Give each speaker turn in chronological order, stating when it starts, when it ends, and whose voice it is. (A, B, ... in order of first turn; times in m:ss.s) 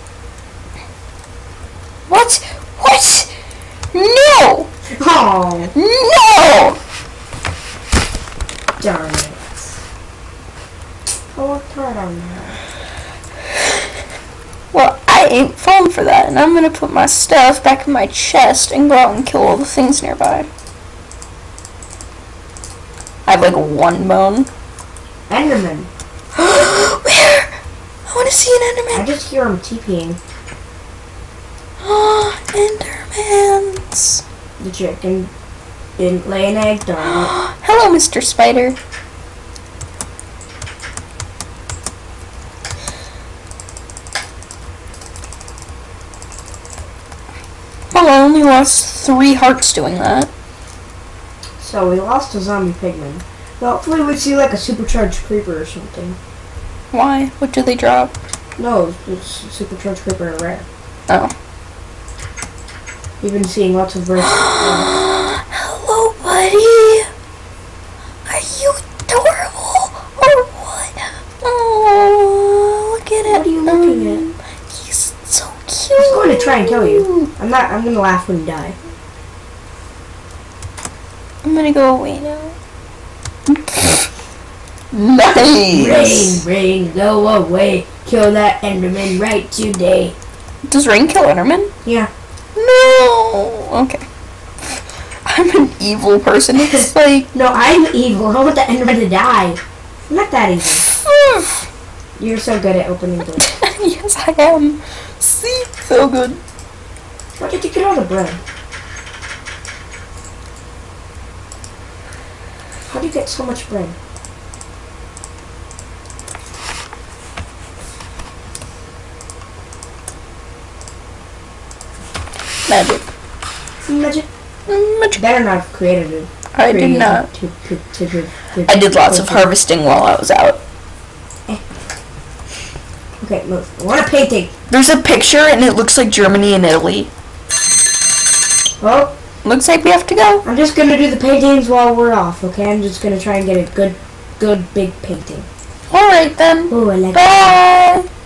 0:02.1-0:03.3 A
0:03.9-0:04.7 A
0:04.8-0:05.7 B
0:05.7-0:06.8 A
0:08.8-0:09.4 B
0:11.3-0:12.6 B
0:14.7-0:20.5 A
0:23.2-0:24.5 A
0:25.3-0:25.9 B
0:26.3-0:27.5 A
0:28.1-0:29.0 A
0:28.9-0:30.2 B
0:31.8-0:34.2 A
0:34.6-0:35.3 B
0:36.0-0:37.3 B
0:37.0-0:38.8 A
0:47.9-0:50.3 A
0:51.6-0:56.2 B
0:56.9-0:58.1 A
0:58.6-1:00.6 B
1:01.1-1:01.3 A
1:03.2-1:04.9 B
1:04.2-1:07.1 A
1:08.2-1:17.3 A
1:13.2-1:14.2 B
1:16.0-1:18.8 B
1:21.4-1:22.6 A
1:23.5-1:24.1 A
1:24.9-1:26.4 A
1:25.5-1:30.2 B
1:30.7-1:31.7 A
1:31.8-1:32.1 B
1:32.6-1:34.0 A
1:35.2-1:37.3 A
1:36.6-1:40.9 B
1:40.8-1:41.7 A
1:42.2-1:43.5 B
1:43.4-1:46.4 A
1:47.4-1:48.4 B
1:52.9-1:53.9 B
2:02.6-2:03.0 A
2:03.8-2:04.3 B
2:04.7-2:05.2 A
2:05.1-2:09.5 B
2:06.5-2:07.3 A
2:08.7-2:10.6 A
2:13.2-2:14.5 B
2:14.7-2:17.1 A
2:18.8-2:19.1 B
2:19.4-2:20.4 A
2:20.4-2:25.5 B
2:25.9-2:28.0 A
2:26.7-2:27.5 B